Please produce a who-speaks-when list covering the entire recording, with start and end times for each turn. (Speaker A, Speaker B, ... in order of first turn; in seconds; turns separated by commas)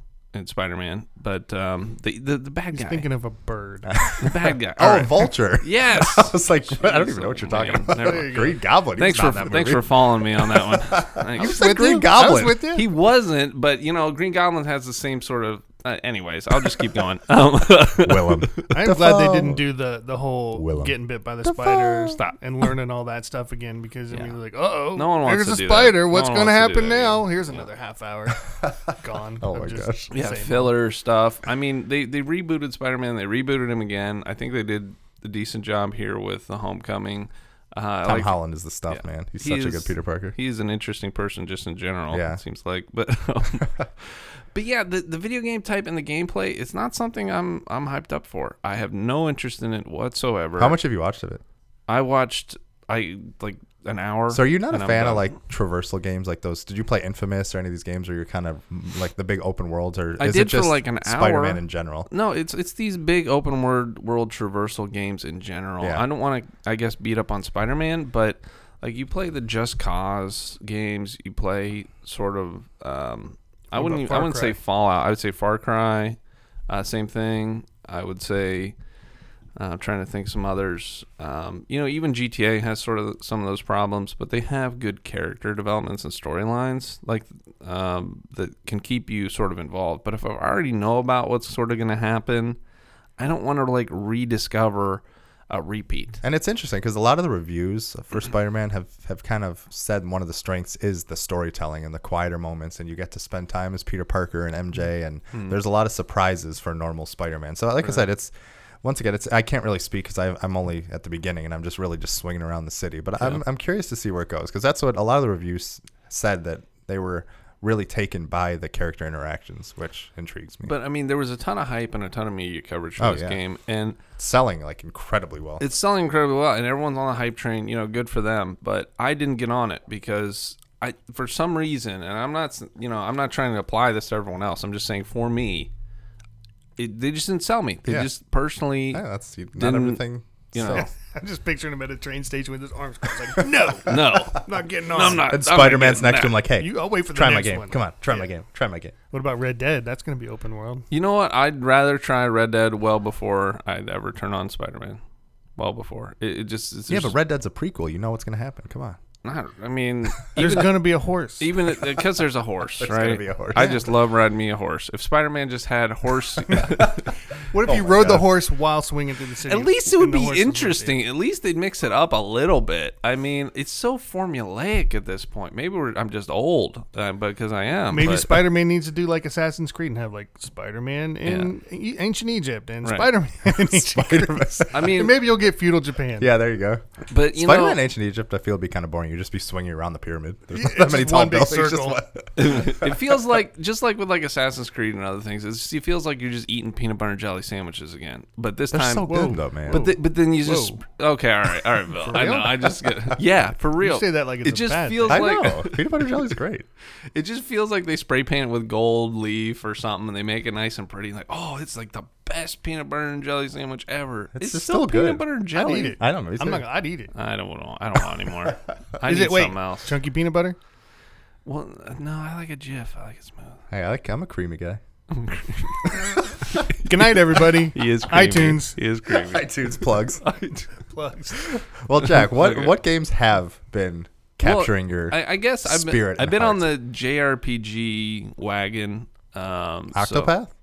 Speaker A: 0.3-3.1, Speaker B: 2.7-4.1, Speaker C: 4.0-12.6, Speaker A: 4.2-12.0, Speaker B: 8.0-8.6, Speaker B: 11.4-12.8, Speaker A: 12.7-18.6, Speaker C: 18.0-19.6, Speaker B: 18.7-30.7, Speaker C: 20.6-20.9, Speaker C: 21.4-22.2, Speaker A: 24.9-27.6, Speaker C: 29.4-30.1, Speaker A: 30.1-38.4, Speaker C: 38.0-40.4, Speaker A: 38.9-50.8, Speaker C: 42.1-42.4, Speaker C: 50.6-51.4, Speaker A: 51.9-55.3, Speaker C: 54.3-62.1, Speaker A: 60.2-76.2, Speaker B: 73.7-74.6, Speaker A: 76.7-78.8, Speaker A: 79.6-92.6, Speaker A: 93.2-96.2, Speaker C: 96.2-120.7, Speaker A: 120.6-124.0, Speaker C: 123.0-123.4, Speaker C: 124.2-125.6, Speaker A: 125.6-135.7, Speaker A: 136.8-139.0, Speaker C: 138.9-140.9, Speaker A: 139.6-140.9, Speaker B: 140.6-145.4, Speaker A: 143.8-146.4, Speaker C: 145.0-148.9, Speaker B: 146.6-148.3, Speaker B: 149.1-150.9, Speaker A: 150.9-155.0, Speaker A: 155.6-157.1, Speaker C: 156.9-159.0, Speaker A: 159.2-160.9, Speaker B: 160.4-161.5, Speaker A: 161.4-167.1, Speaker C: 162.8-163.8, Speaker C: 166.6-167.1, Speaker B: 167.5-171.0, Speaker C: 167.7-168.3, Speaker A: 169.5-178.4, Speaker B: 177.9-186.3, Speaker A: 181.2-181.5, Speaker A: 182.8-183.1, Speaker C: 183.5-184.9, Speaker A: 184.7-185.2, Speaker C: 186.2-192.9, Speaker A: 187.1-187.8, Speaker B: 190.5-192.0, Speaker A: 192.4-206.0, Speaker C: 198.7-199.8, Speaker B: 199.0-200.8, Speaker B: 202.0-202.6, Speaker C: 202.2-203.2, Speaker B: 203.8-205.4, Speaker C: 205.1-206.7, Speaker A: 207.1-216.0, Speaker C: 214.3-216.7, Speaker B: 215.6-217.1, Speaker A: 217.1-219.9, Speaker B: 219.0-220.6, Speaker A: 221.4-223.6, Speaker C: 223.7-224.8, Speaker A: 225.1-229.6, Speaker C: 225.8-226.1, Speaker B: 226.8-228.8, Speaker C: 229.1-230.7, Speaker B: 230.8-231.5, Speaker C: 231.3-236.7, Speaker A: 232.3-232.7, Speaker A: 234.4-240.3, Speaker C: 239.9-240.5